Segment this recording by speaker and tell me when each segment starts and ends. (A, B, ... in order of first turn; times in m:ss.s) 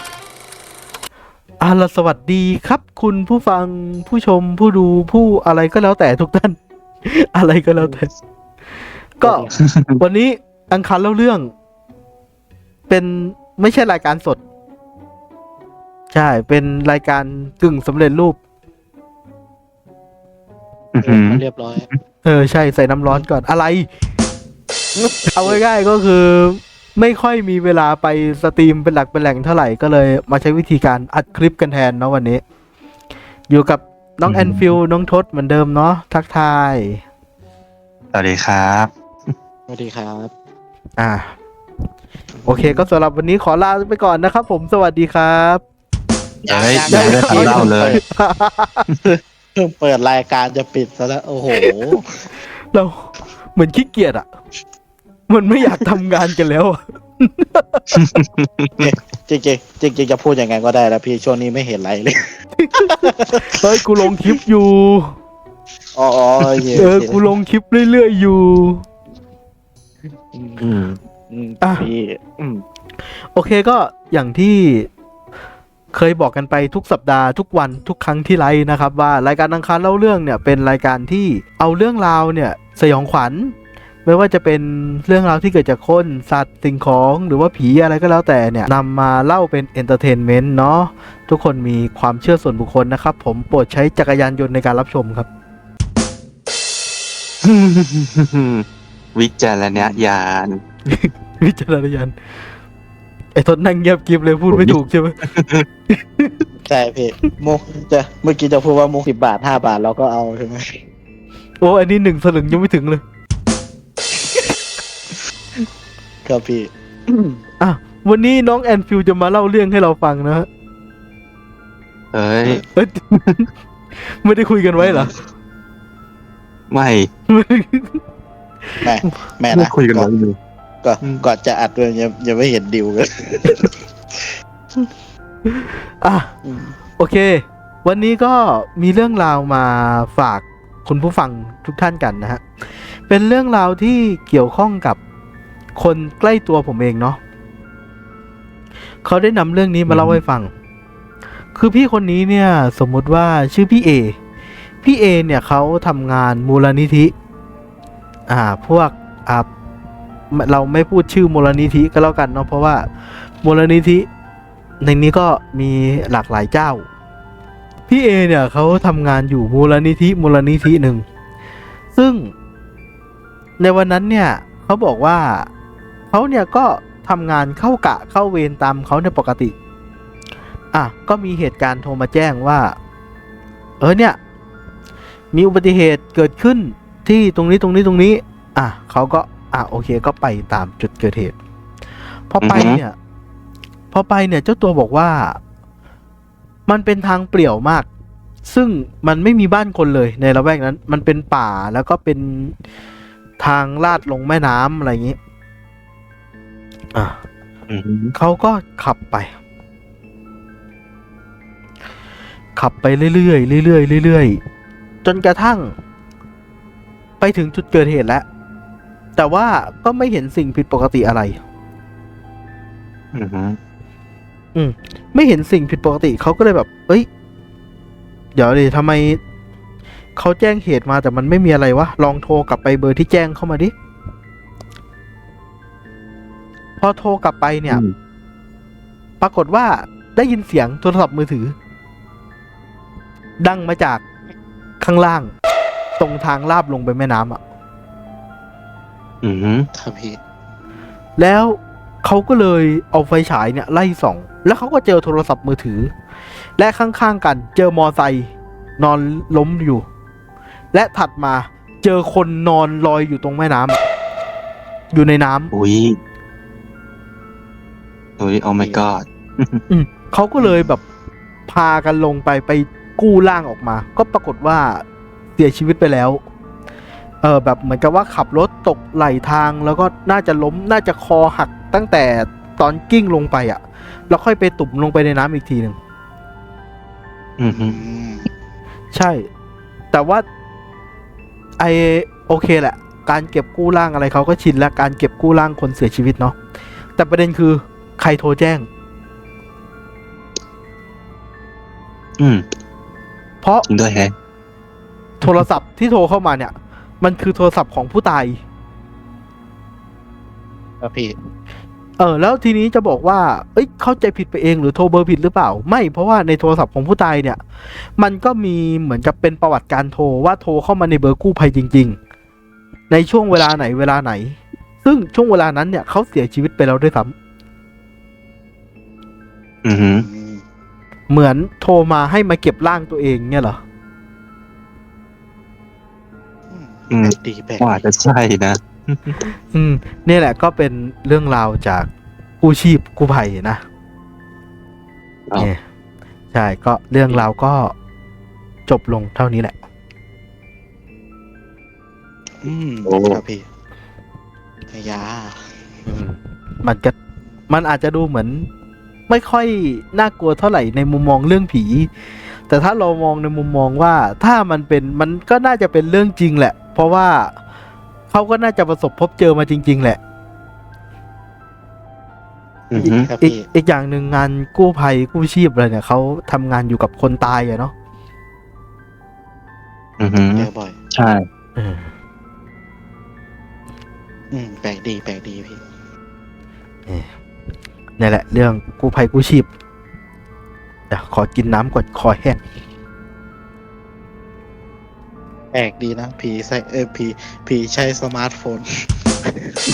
0:01.6-0:08.1 A
0:09.2-0:09.4 A
0:09.2-0:09.6 B
0:10.0-0:11.5 A
0:12.9-0:14.4 A
0:16.1-0:18.4 A
0:20.9-0:22.0 C
0:21.0-0:21.9 B
0:22.2-0:23.9 A
0:24.9-0:25.6 B
0:25.3-0:32.4 A
0:33.5-0:37.0 A
0:34.3-0:34.7 C
0:38.1-0:38.9 C
0:39.7-0:40.3 B
0:41.0-0:41.3 A
0:42.4-0:42.8 B
0:42.5-0:45.6 A
0:46.4-0:48.0 B
0:46.4-0:48.0 C
0:46.9-0:48.8 A
0:49.0-0:52.1 B
0:51.6-0:52.0 A
0:52.7-0:54.3 A
0:55.3-0:58.0 A
0:57.9-0:58.9 C
0:58.8-1:04.1 B
1:02.6-1:05.2 A
1:05.9-1:07.2 B
1:06.7-1:08.8 A
1:10.3-1:10.6 B
1:10.6-1:11.0 C
1:11.3-1:12.6 B
1:13.3-1:14.9 A
1:15.9-1:35.3 A
1:37.4-1:40.6 C
1:39.7-1:40.0 B
1:40.9-1:42.1 A
1:43.3-1:45.2 A
1:44.5-1:45.6 C
1:45.9-1:46.4 A
1:46.6-1:50.8 B
1:51.6-1:53.0 A
1:54.1-1:54.4 B
1:56.2-1:57.4 B
1:57.6-2:00.5 A
2:02.1-2:02.6 C
2:02.7-2:03.4 A
2:04.0-2:05.1 A
2:04.8-2:05.1 B
2:06.7-2:07.1 C
2:07.3-2:08.0 A
2:08.8-2:10.1 B
2:09.5-2:10.4 C
2:10.8-2:13.7 B
2:15.5-2:16.3 A
2:16.4-2:16.7 B
2:17.0-2:25.0 A
2:25.8-2:27.2 A
2:29.0-2:30.5 A
2:29.9-2:30.2 C
2:31.5-2:34.2 A
2:34.8-2:37.1 A
2:38.3-2:39.5 A
2:40.3-2:42.9 A
2:43.4-2:44.1 A
2:44.8-2:46.8 A
2:47.9-2:51.0 A
2:51.9-2:52.3 A
2:53.6-2:55.5 A
2:56.1-2:59.5 A
3:00.7-3:02.7 A
3:03.8-3:04.2 A
3:05.3-3:11.3 A
3:12.3-3:13.0 A
3:12.4-3:12.8 C
3:13.9-3:15.4 A
3:16.7-3:17.9 A
3:18.4-3:22.5 A
3:23.4-3:25.2 A
3:27.7-3:28.1 C
3:28.2-3:29.3 A
3:32.6-3:34.4 A
3:35.0-3:35.7 A
3:37.2-3:38.2 A
3:39.2-3:41.4 A
3:43.1-3:43.6 C
3:44.5-3:47.1 A
3:48.3-3:49.2 A
3:50.2-3:53.7 A
3:56.8-3:57.8 A
3:57.7-3:57.9 C
3:59.2-4:01.5 A
4:03.4-4:04.0 A
4:04.8-4:05.3 A
4:06.0-4:07.4 A
4:09.2-4:09.7 C
4:09.7-4:10.2 B
4:11.2-4:15.9 A
4:16.6-4:19.8 A
4:20.7-4:23.8 A
4:24.9-4:25.5 A
4:25.5-4:26.0 C
4:28.2-4:29.6 C
4:28.6-4:28.8 B
4:29.7-4:30.8 A
4:30.4-4:30.7 B
4:31.5-4:34.8 A
4:35.4-4:36.2 A
4:37.2-4:45.8 A
4:47.4-4:47.8 C
4:47.5-4:48.3 B
4:48.9-4:49.3 A
4:49.9-4:50.2 A
4:51.6-4:56.4 A
4:57.0-4:58.7 A
5:02.2-5:02.4 C
5:03.7-5:04.1 C
5:05.2-5:08.4 A
5:10.8-5:11.2 B
5:12.0-5:17.4 A
5:18.0-5:22.0 A
5:22.9-5:27.1 A
5:29.6-5:30.1 C
5:30.0-5:30.4 B
5:31.1-5:33.6 A
5:36.5-5:37.8 B
5:36.9-5:39.2 C
5:39.5-5:41.9 A
5:42.4-5:43.6 A
5:46.3-5:47.7 A
5:48.7-5:49.6 A
5:52.4-5:53.4 B
5:52.8-5:53.2 C
5:54.7-5:55.4 B
5:55.8-5:56.9 A
5:57.5-5:58.5 A
5:59.1-6:01.9 A
6:02.5-6:07.3 A
6:08.1-6:10.0 A
6:12.7-6:13.1 C
6:12.8-6:13.4 B
6:12.8-6:17.7 A
6:20.0-6:21.3 C
6:20.3-6:20.8 B
6:21.6-6:21.9 A
6:24.3-6:25.6 B
6:28.0-6:29.5 A
6:30.9-6:32.4 A
6:35.5-6:39.6 B